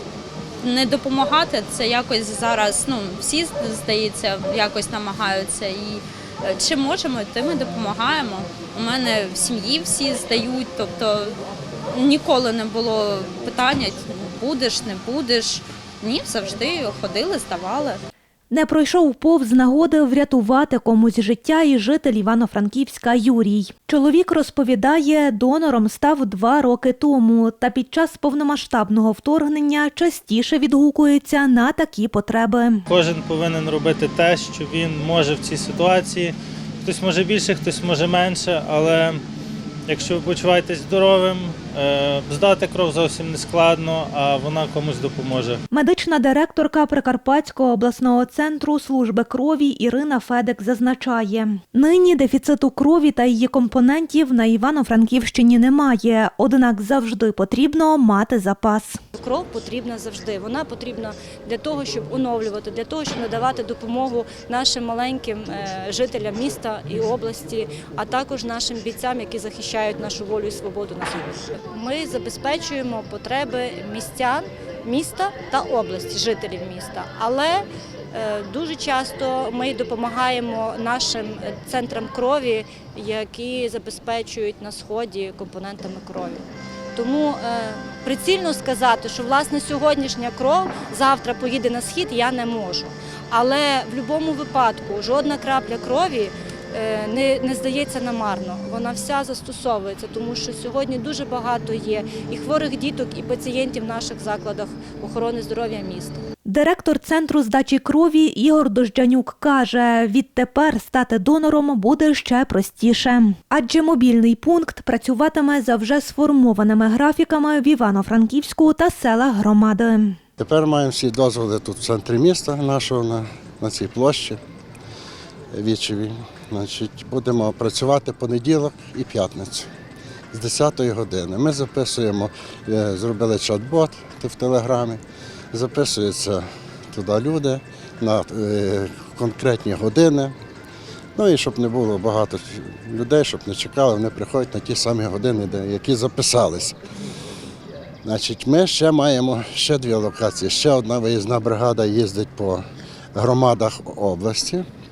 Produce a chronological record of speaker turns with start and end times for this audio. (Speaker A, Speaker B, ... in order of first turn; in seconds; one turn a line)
Speaker A: 0.6-11.4
Speaker A: 11.9-18.0
Speaker B: 18.5-32.8
Speaker C: 32.9-39.2
Speaker C: 39.9-45.6
Speaker B: 45.7-59.0
Speaker D: 59.1-106.2
Speaker B: 106.5-120.2
Speaker E: 120.4-124.4
Speaker E: 125.5-129.7
Speaker E: 130.3-135.0
Speaker E: 135.5-140.3
Speaker E: 141.2-146.8
Speaker E: 148.1-154.7